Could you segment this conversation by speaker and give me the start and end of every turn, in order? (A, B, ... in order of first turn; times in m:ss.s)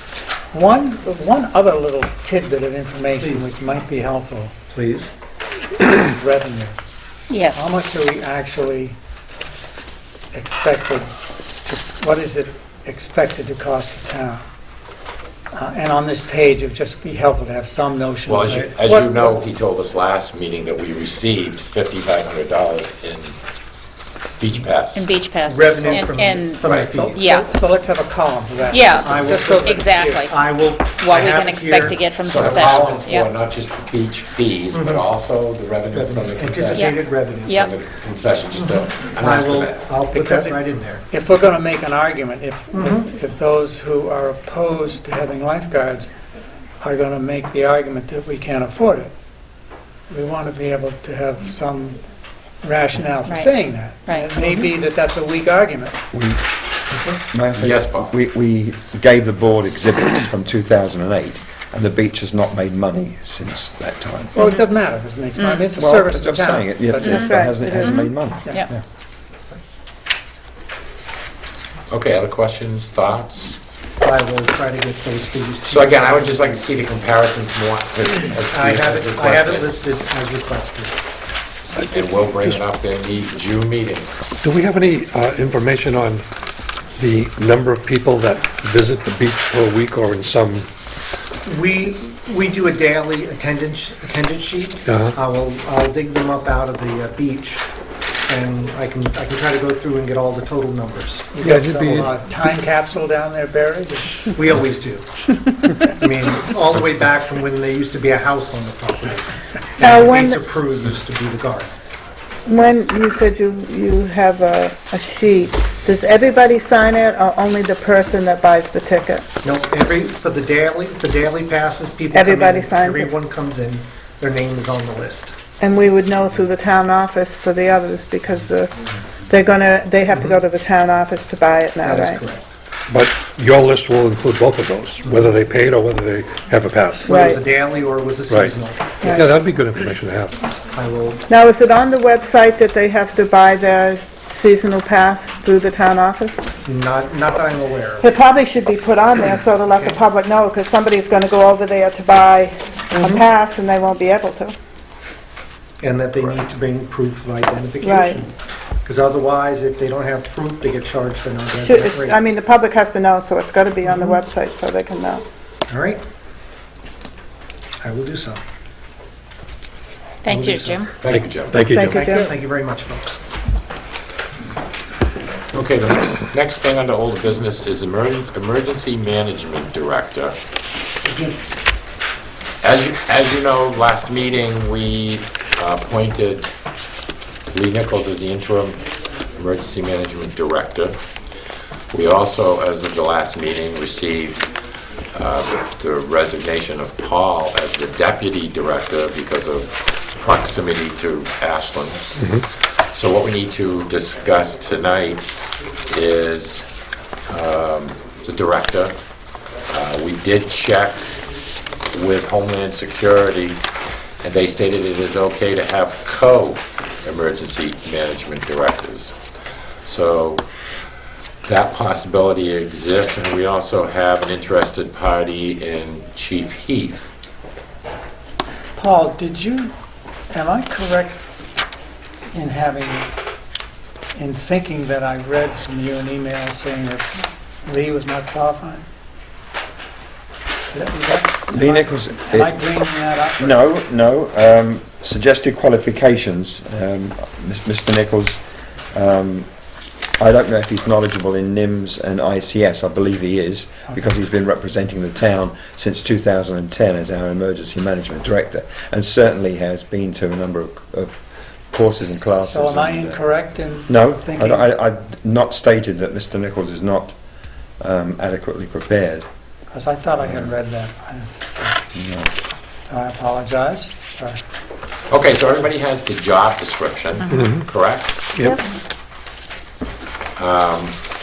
0:00.5-0:04.5 A
0:03.2-0:03.5 B
0:04.7-0:05.1 B
0:05.8-0:06.7 A
0:07.3-0:07.7 C
0:07.5-0:09.0 A
0:10.3-0:11.1 A
0:11.6-0:14.4 A
0:15.5-0:19.4 A
0:18.3-0:23.4 D
0:24.4-0:25.0 D
0:24.9-0:27.5 C
0:25.4-0:27.4 B
0:26.6-0:30.3 A
0:28.7-0:30.3 C
0:29.0-0:33.1 B
0:31.0-0:33.3 C
0:32.2-0:39.9 D
0:34.7-0:35.0 B
0:35.9-0:37.6 B
0:36.7-0:37.7 C
0:38.5-0:41.0 B
0:40.1-0:40.6 A
0:41.1-0:46.1 A
0:42.7-0:43.0 B
0:46.8-0:49.1 A
0:50.1-0:52.0 A
0:52.6-0:56.0 A
0:53.3-0:54.3 C
0:56.1-0:56.4 E
0:57.3-1:04.3 E
0:57.5-0:58.1 D
1:04.3-1:07.8 A
1:04.4-1:04.6 C
1:05.4-1:05.7 C
1:05.8-1:08.6 E
1:07.0-1:08.7 C
1:07.1-1:08.0 F
1:11.9-1:13.6 D
1:14.0-1:16.6 B
1:15.7-1:19.7 D
1:18.5-1:21.0 B
1:21.7-1:22.6 G
1:21.8-1:24.1 D
1:24.4-1:26.3 G
1:27.0-1:30.7 G
1:31.4-1:37.6 B
1:34.8-1:35.2 G
1:38.3-1:42.1 B
1:41.4-1:44.3 A
1:44.3-1:45.1 B
1:45.8-1:51.7 B
1:49.8-1:50.4 F
1:52.4-1:59.3 F
1:59.4-2:05.3 B
2:02.1-2:03.1 F
2:05.6-2:08.7 F
2:09.3-2:12.2 F
2:11.8-2:12.5 B
2:12.9-2:17.1 G
2:17.0-2:19.2 B
2:17.1-2:17.4 F
2:18.3-2:18.6 G
2:19.1-2:20.5 G
2:20.7-2:21.2 B
2:21.3-2:26.4 F
2:26.6-2:28.1 B
2:28.0-2:34.5 F
2:29.7-2:30.0 B
2:35.8-2:38.3 B
2:37.8-2:38.2 F
2:38.8-2:42.2 B
2:41.6-2:45.2 F
2:45.7-2:46.0 B
2:47.8-2:48.4 B
2:50.2-2:50.9 C
2:50.3-2:50.8 B
2:51.0-2:51.8 D
2:51.0-2:51.9 G
2:51.7-2:52.3 F
2:51.9-2:53.2 B
2:55.5-3:00.3 D
3:01.0-3:01.4 B
3:02.6-3:06.5 D
3:07.5-3:08.8 D
3:09.4-3:11.0 D
3:11.9-3:14.5 D
3:15.1-3:25.3 D
3:22.2-3:22.4 G
3:25.9-3:26.7 D
3:27.3-3:29.0 D
3:29.7-3:31.2 D
3:31.9-3:33.6 D
3:34.2-3:39.1 D
3:39.8-3:40.4 D
3:41.4-3:47.1 D
3:48.8-3:49.7 A
3:50.3-3:51.2 A
3:52.3-3:53.1 A
3:54.1-3:58.8 A
4:00.7-4:03.6 A
4:01.5-4:02.6 E
4:03.4-4:08.4 E
4:08.9-4:09.5 E
4:10.2-4:21.1 E
4:21.7-4:23.2 E
4:21.8-4:24.6 A
4:23.9-4:27.2 E
4:27.8-4:29.2 E
4:29.7-4:31.8 A
4:30.2-4:30.5 E
4:31.9-4:32.3 E
4:32.9-4:34.4 A
4:35.1-4:38.2 D
4:37.3-4:37.6 G
4:40.4-4:41.0 D